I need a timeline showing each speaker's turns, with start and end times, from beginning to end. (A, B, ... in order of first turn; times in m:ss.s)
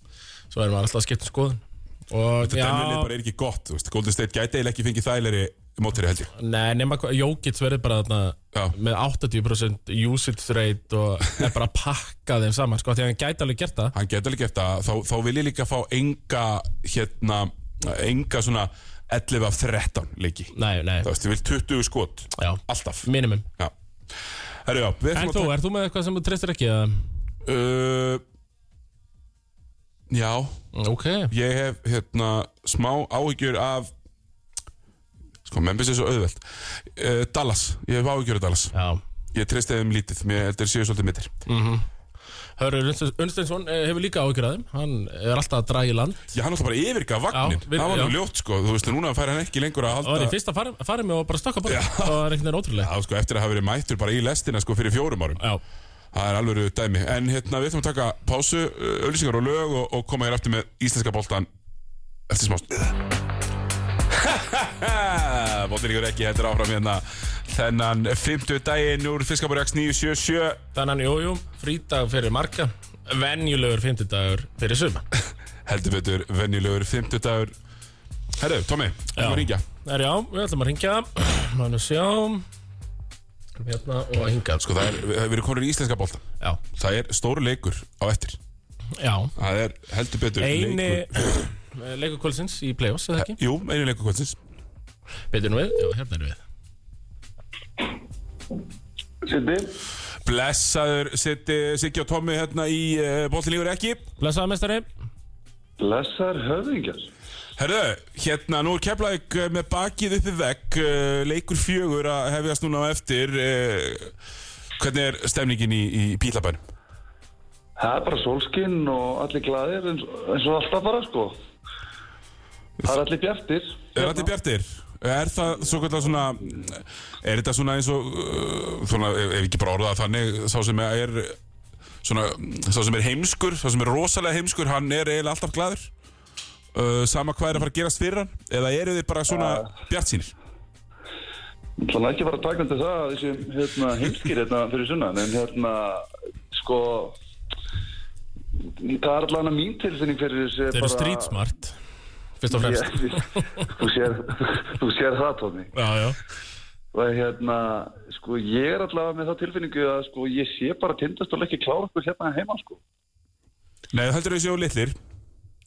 0:00.5-0:03.1 A
0:02.4-0:06.3 B
0:06.4-0:14.0 A
0:14.0-0:23.7 B
0:20.5-0:21.1 A
0:22.4-0:23.5 A
0:24.6-0:25.5 B
0:25.1-0:27.0 A
0:27.4-0:28.2 B
0:30.1-0:30.6 B
0:30.7-0:31.3 A
0:31.3-0:33.9 B
0:35.4-0:38.7 B
0:38.7-0:39.0 A
0:39.3-0:41.3 B
0:41.5-0:41.9 A
0:42.6-0:46.3 A
0:46.3-0:50.4 B
0:47.3-0:48.2 A
0:49.9-0:52.9 A
0:51.7-0:52.3 B
0:52.8-0:55.4 B
0:56.1-1:01.5 B
1:02.3-1:03.0 B
1:04.1-1:10.6 B
1:10.7-1:15.0 A
1:15.7-1:17.5 B
1:18.4-1:19.6 B
1:19.2-1:22.4 A
1:23.6-1:24.7 A
1:24.6-1:28.4 B
1:29.0-1:29.3 A
1:29.4-1:31.5 B
1:30.4-1:33.4 A
1:33.2-1:34.4 B
1:35.3-1:36.4 A
1:39.2-1:39.7 C
1:40.2-1:44.1 B
1:44.2-1:44.8 A
1:45.8-1:47.1 C
1:47.6-1:54.1 B
1:54.8-1:56.6 B
1:57.8-2:01.4 C
2:02.8-2:04.3 C
2:04.0-2:11.4 B
2:12.0-2:15.9 B
2:16.7-2:20.3 B
2:19.3-2:19.7 C
2:21.8-2:27.2 C
2:28.6-2:31.4 C
2:30.7-2:31.8 A
2:32.4-2:33.2 A
2:32.5-2:35.7 C
2:35.8-2:36.2 A
2:36.9-2:42.8 C
2:43.9-2:45.0 B